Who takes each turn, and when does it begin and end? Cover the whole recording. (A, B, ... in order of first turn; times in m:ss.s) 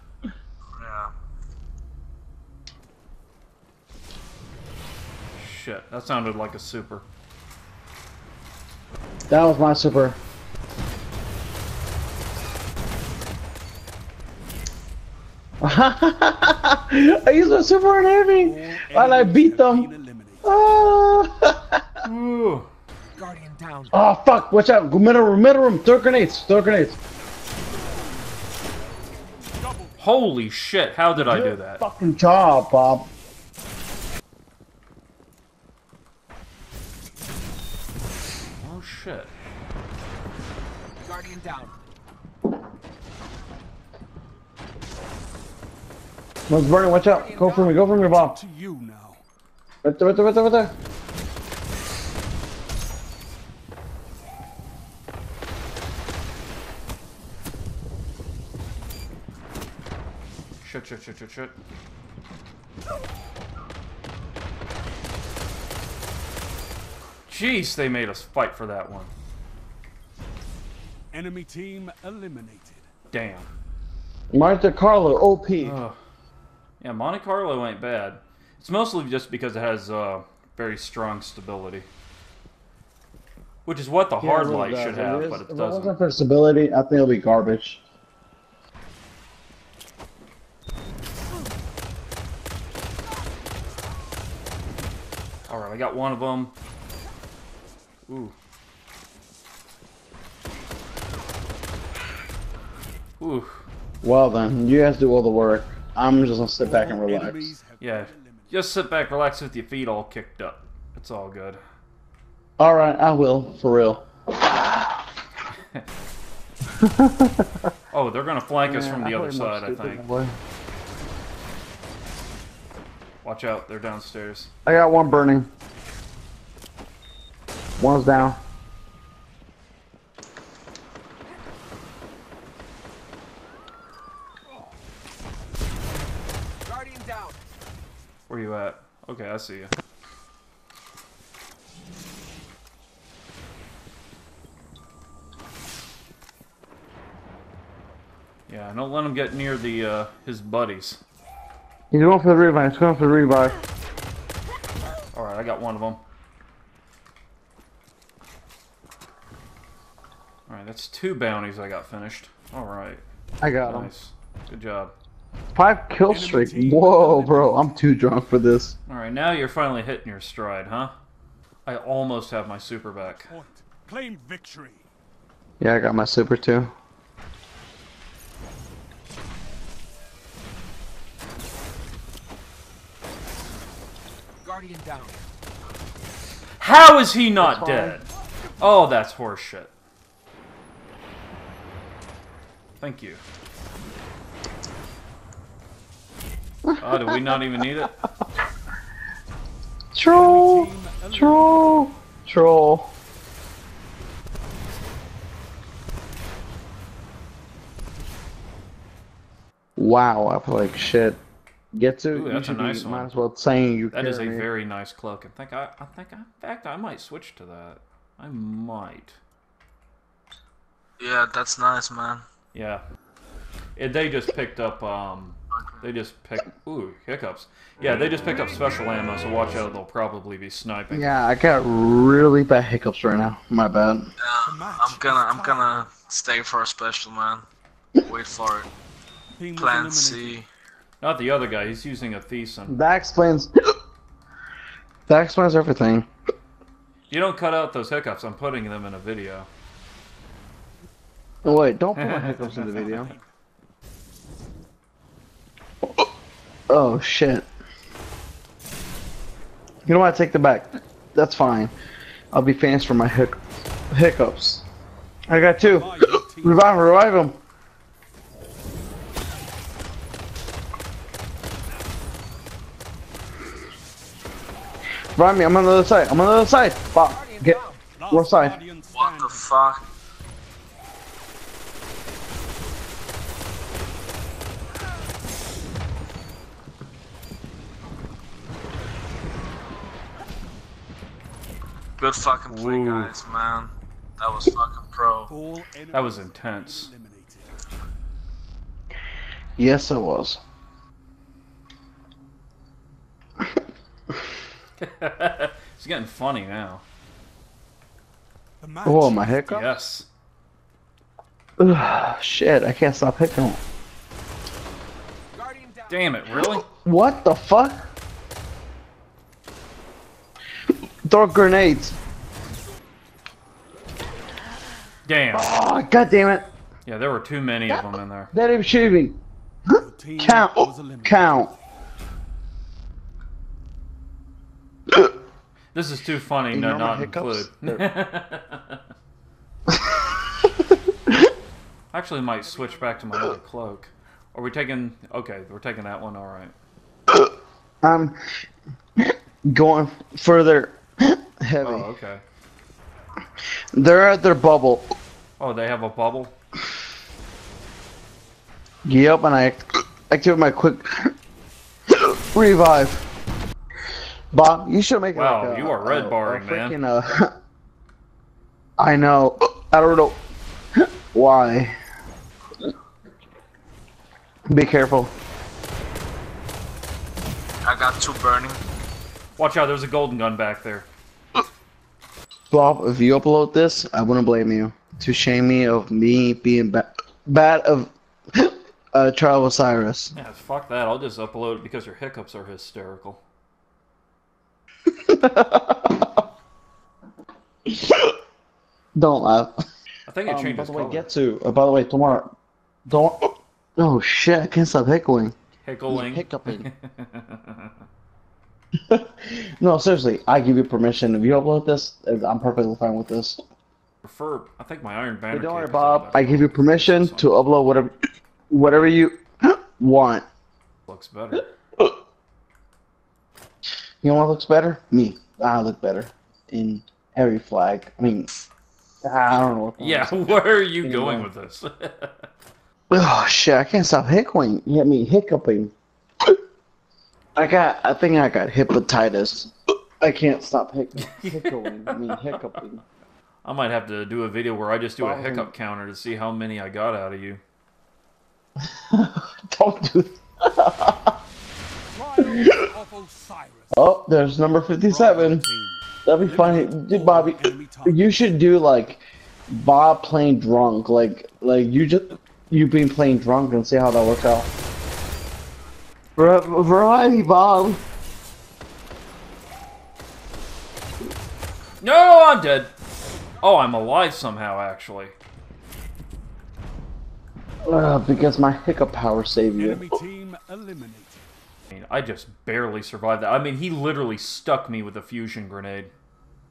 0:00.8-0:01.1 A
0:05.4-0:07.0 B
0:09.3-0:10.2 C
0:15.6-0:19.9 C
0:18.4-0:20.5 D
0:20.4-0:21.8 C
0:22.0-0:22.7 B
0:23.2-0:23.9 E
0:23.9-0:27.0 C
0:30.0-0:31.8 B
0:31.1-0:33.1 C
0:38.6-0:39.3 B
0:41.0-0:41.7 E
0:46.5-0:48.4 C
0:47.1-0:47.7 E
0:48.1-0:49.2 D
0:49.8-0:50.7 C
1:00.6-1:01.5 B
1:07.3-1:09.1 B
1:11.1-1:12.8 D
1:13.1-1:13.5 B
1:14.3-1:15.8 C
1:15.6-1:16.0 B
1:16.8-1:21.8 B
1:23.6-1:25.9 B
1:24.2-1:27.8 C
1:35.5-1:36.5 B
1:38.1-1:38.3 B
1:43.2-1:43.7 B
1:44.0-1:47.5 C
1:46.6-1:48.5 D
1:47.8-1:51.6 B
1:52.6-1:55.0 C
1:55.5-1:55.8 B
1:56.8-1:57.7 C
1:57.9-2:00.0 B
1:58.6-2:00.3 C
2:03.2-2:04.5 B
2:04.6-2:05.5 C
2:07.8-2:08.4 C
2:16.6-2:17.4 E
2:18.3-2:19.7 B
2:28.5-2:31.0 B
2:31.9-2:33.6 C
2:35.1-2:36.0 B
2:40.5-2:43.0 B
2:43.4-2:43.9 C
2:43.6-2:44.9 B
2:45.5-2:48.7 C
2:46.1-2:47.9 D
2:48.9-2:50.9 B
2:51.6-2:53.3 B
2:53.0-2:54.8 D
2:55.6-2:56.7 C
3:04.4-3:05.2 E
3:06.6-3:08.0 B
3:07.4-3:08.0 C
3:08.6-3:09.7 B
3:12.8-3:13.2 B
3:16.7-3:17.6 C
3:16.8-3:18.0 B
3:19.9-3:22.9 C
3:20.1-3:21.9 D
3:29.8-3:31.2 C
3:31.7-3:34.5 C
3:32.1-3:33.1 B
3:33.9-3:39.2 B
3:41.0-3:42.2 A
3:42.5-3:42.8 B
3:43.8-3:51.1 B
3:45.5-3:45.8 A
3:50.9-3:54.1 C
3:54.2-3:57.4 A
3:54.4-3:55.8 D
3:58.0-3:58.7 A
3:59.4-4:00.4 D
3:59.6-4:00.5 A
4:01.0-4:02.8 B
4:02.7-4:03.5 C
4:05.1-4:06.1 C
4:07.1-4:09.5 B
4:11.4-4:13.2 C
4:12.0-4:12.6 B
4:12.5-4:13.2 D
4:16.7-4:17.5 C
4:19.8-4:21.7 C
4:22.3-4:23.4 C
4:23.9-4:24.6 C
4:25.3-4:27.4 C
4:25.6-4:26.7 D
4:35.2-4:38.6 C
4:37.1-4:37.8 E
4:37.9-4:39.5 D
4:38.9-4:39.8 A
4:52.0-4:55.3 A
4:52.5-4:53.1 B
4:55.3-4:57.5 D
4:55.9-4:56.9 B
4:59.6-5:00.4 C
5:04.8-5:06.8 B
5:08.6-5:09.6 D
5:08.8-5:09.8 C
5:09.5-5:10.1 B
5:11.6-5:13.6 C
5:15.3-5:16.0 E
5:15.9-5:16.7 B
5:16.3-5:17.9 C
5:21.0-5:22.0 C
5:25.0-5:25.5 B
5:25.3-5:26.4 C
5:26.8-5:28.3 B
5:27.7-5:29.2 C
5:29.7-5:31.5 C
5:29.7-5:31.5 D
5:35.7-5:38.8 B
5:36.5-5:37.9 C
5:39.7-5:41.3 C
5:41.9-5:46.5 B
5:42.4-5:43.2 D
5:47.8-5:48.1 C
5:49.0-5:51.9 C
5:51.6-5:52.2 B
5:53.7-5:54.9 C
5:55.4-5:56.3 B
5:58.8-6:01.1 C
6:01.9-6:03.0 C
6:04.3-6:07.3 C
6:05.1-6:06.8 B
6:08.8-6:10.2 C
6:10.8-6:11.8 C
6:14.5-6:15.1 C
6:17.6-6:18.6 A
6:19.4-6:20.9 B
6:22.5-6:30.1 C
6:30.1-6:33.2 B
6:35.0-6:36.2 C
6:37.7-6:38.1 C
6:38.9-6:39.5 C
6:40.1-6:41.1 B
6:40.2-6:42.3 C
6:42.9-6:45.3 C
6:45.6-6:47.7 B
6:45.9-6:46.7 C
6:48.9-6:53.4 C
6:54.0-6:57.4 B
6:55.3-6:57.9 C
6:58.5-7:00.2 C
7:00.9-7:01.5 B
7:04.0-7:08.3 C
7:09.0-7:11.3 C
7:09.8-7:12.2 B
7:12.9-7:15.7 C
7:17.4-7:22.8 C
7:21.0-7:22.3 B
7:23.4-7:27.4 B
7:25.0-7:25.5 C
7:28.7-7:31.1 C
7:31.9-7:33.8 D
7:32.2-7:32.6 C
7:33.7-7:35.4 C
7:34.8-7:38.2 D
7:36.0-7:44.5 C
7:46.2-7:47.8 C
7:51.8-7:52.7 B
7:53.4-7:55.1 B
7:57.7-7:59.9 C
7:59.6-8:01.2 D
8:01.7-8:05.9 B